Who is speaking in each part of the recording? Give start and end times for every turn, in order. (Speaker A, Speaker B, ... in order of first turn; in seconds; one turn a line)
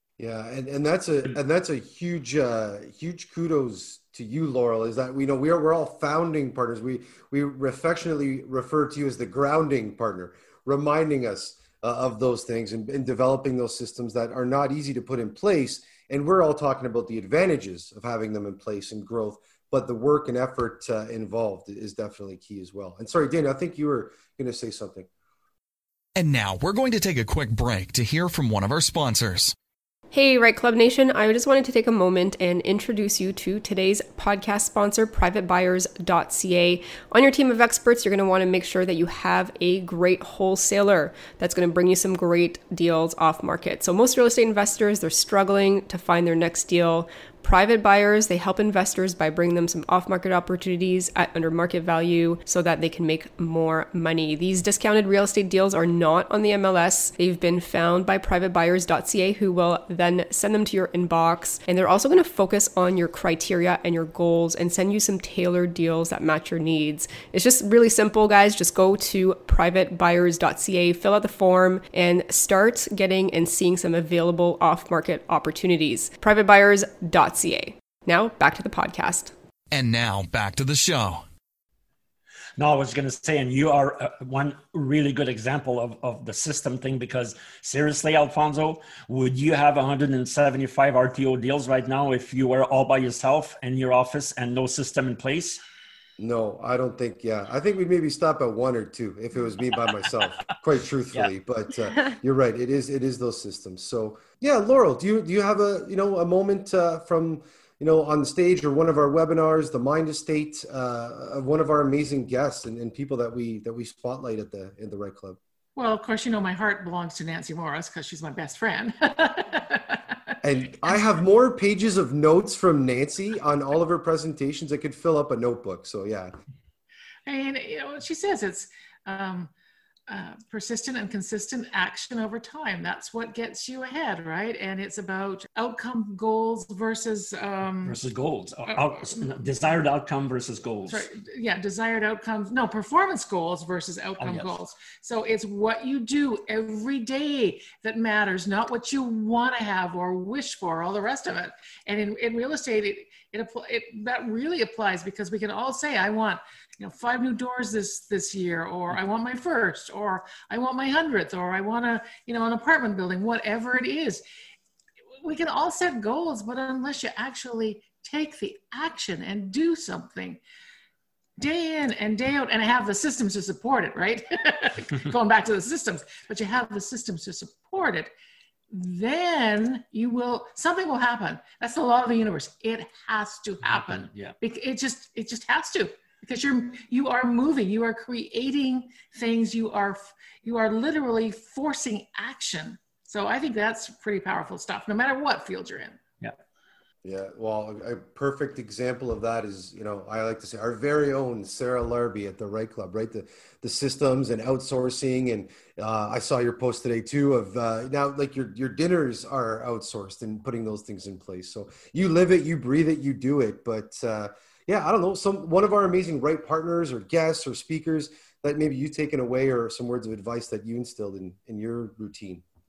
Speaker A: 0.2-25.1
Speaker B: 26.1-29.5
Speaker C: 30.1-79.3
Speaker B: 79.7-81.2
Speaker D: 82.6-95.6
Speaker A: 96.2-115.4
Speaker E: 115.8-120.3
Speaker A: 120.4-126.3
Speaker E: 127.2-129.5
Speaker E: 130.1-137.9
Speaker D: 137.8-141.0
Speaker E: 138.7-139.2
Speaker E: 140.9-164.2
Speaker D: 144.2-144.5
Speaker E: 165.2-170.4
Speaker E: 171.4-178.1
Speaker E: 178.7-196.0
Speaker D: 183.7-184.3
Speaker A: 197.0-222.4